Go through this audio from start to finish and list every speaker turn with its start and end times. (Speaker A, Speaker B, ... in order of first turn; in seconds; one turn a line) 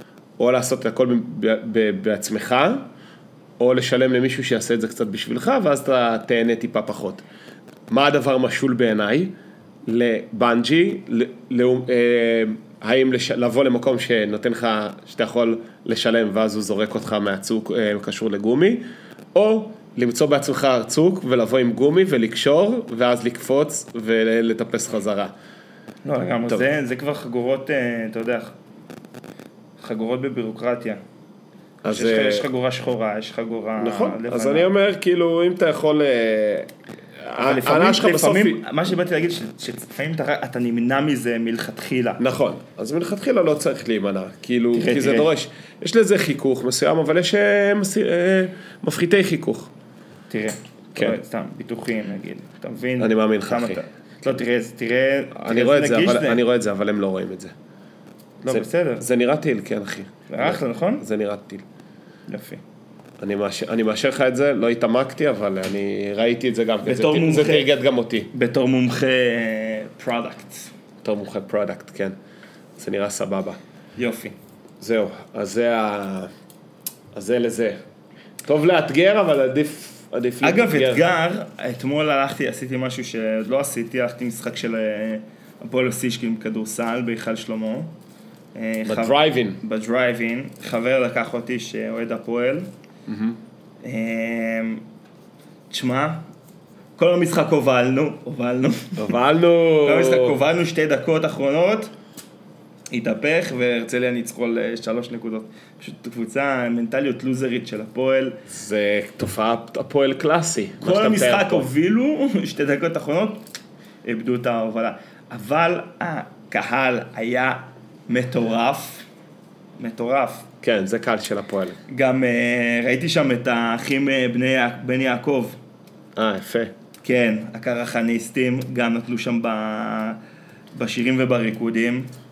Speaker A: 0.4-2.9
Speaker A: 3.6-7.2
Speaker A: 7.9-9.3
Speaker A: 9.9-25.3
Speaker B: 26.1-28.6
Speaker B: 29.8-31.0
Speaker A: 31.8-32.5
Speaker B: 31.9-34.7
Speaker A: 33.8-36.7
Speaker A: 37.2-38.6
Speaker B: 37.4-42.2
Speaker A: 42.2-49.7
Speaker B: 44.7-45.3
Speaker B: 50.3-56.4
Speaker A: 53.0-53.8
Speaker A: 55.4-57.5
Speaker A: 58.4-61.6
Speaker B: 58.4-59.1
Speaker B: 60.3-61.0
Speaker B: 62.3-62.6
Speaker A: 63.2-68.3
Speaker B: 66.8-67.7
Speaker B: 68.3-70.7
Speaker A: 71.0-72.2
Speaker A: 72.8-73.6
Speaker B: 74.0-74.3
Speaker A: 74.8-76.3
Speaker A: 77.1-77.8
Speaker A: 78.5-81.0
Speaker B: 80.4-87.9
Speaker B: 88.5-92.7
Speaker A: 88.8-89.6
Speaker A: 93.1-93.4
Speaker B: 93.8-94.8
Speaker B: 95.7-96.2
Speaker B: 97.0-99.2
Speaker A: 99.0-100.4
Speaker B: 99.8-101.9
Speaker B: 102.9-108.4
Speaker A: 108.5-111.7
Speaker B: 110.8-113.4
Speaker B: 114.0-119.0
Speaker B: 119.8-120.5
Speaker A: 120.6-121.8
Speaker B: 121.9-125.6
Speaker A: 126.2-126.7
Speaker B: 127.0-130.2
Speaker B: 130.8-132.1